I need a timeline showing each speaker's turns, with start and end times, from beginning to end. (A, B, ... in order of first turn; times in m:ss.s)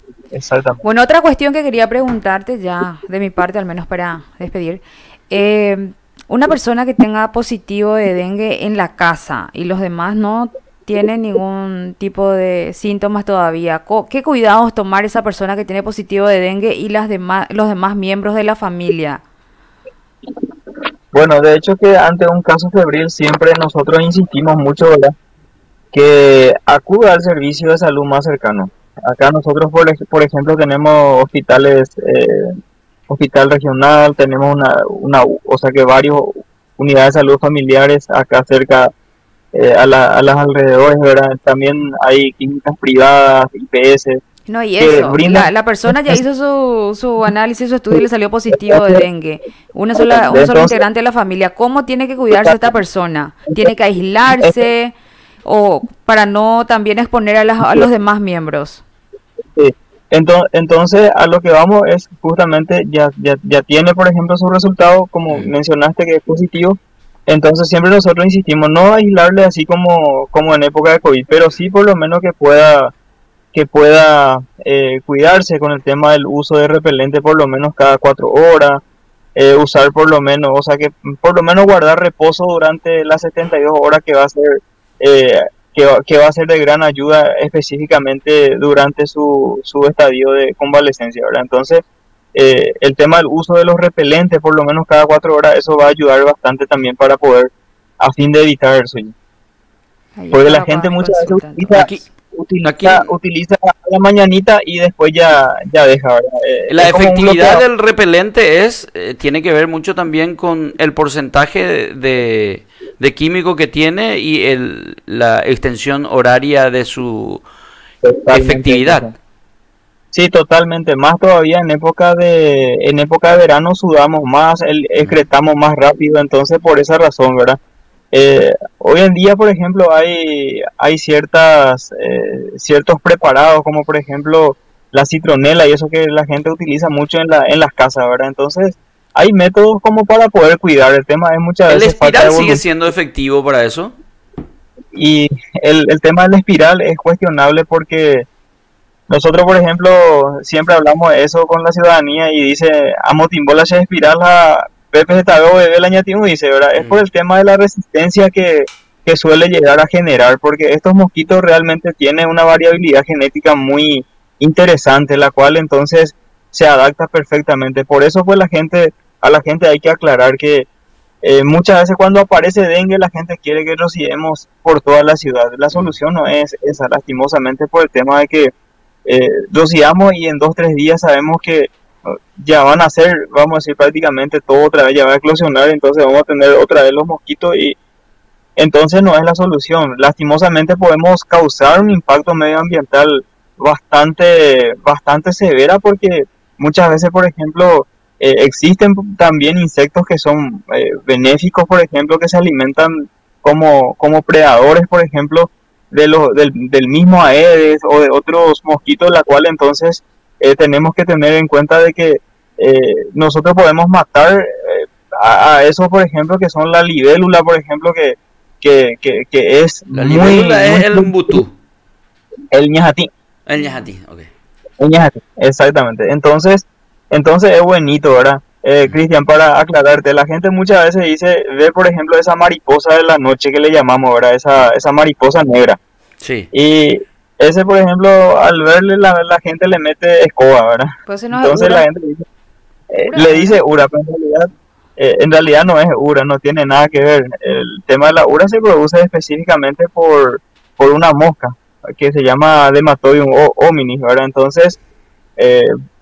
0:00.3-0:00.8 A
0:00.8-0:19.2 B
0:21.1-0:25.1 A
0:25.9-0:32.6 A
0:33.1-0:38.9 A
0:39.5-0:44.2 A
0:44.5-0:54.9 B
0:44.8-0:46.2 A
0:48.5-0:49.0 A
0:50.0-0:50.8 A
0:52.3-0:52.6 A
0:54.3-0:54.6 A
0:55.4-0:58.8 B
0:59.5-1:12.9 A
1:13.5-1:18.8 A
1:19.4-1:31.8 A
1:32.3-1:39.1 A
1:40.2-1:41.9 B
1:40.3-1:47.6 A
1:41.7-1:42.0 C
1:42.6-1:43.1 C
1:46.7-1:57.4 C
1:58.0-1:59.1 A
1:58.3-1:59.1 C
2:00.1-2:07.6 A
2:08.1-2:22.6 A
2:21.7-2:23.9 C
2:24.9-2:28.3 A
2:29.1-2:50.7 A
2:51.2-2:58.5 A
2:59.0-3:07.8 A
3:08.6-3:41.4 A
3:39.9-3:41.5 C
3:42.5-3:43.1 A
3:43.5-3:44.3 C
3:44.8-3:55.8 A
3:56.2-3:56.5 C
3:56.5-4:02.2 A
4:01.1-4:01.8 B
4:02.9-4:14.8 A
4:03.0-4:03.6 B
4:15.4-4:15.7 A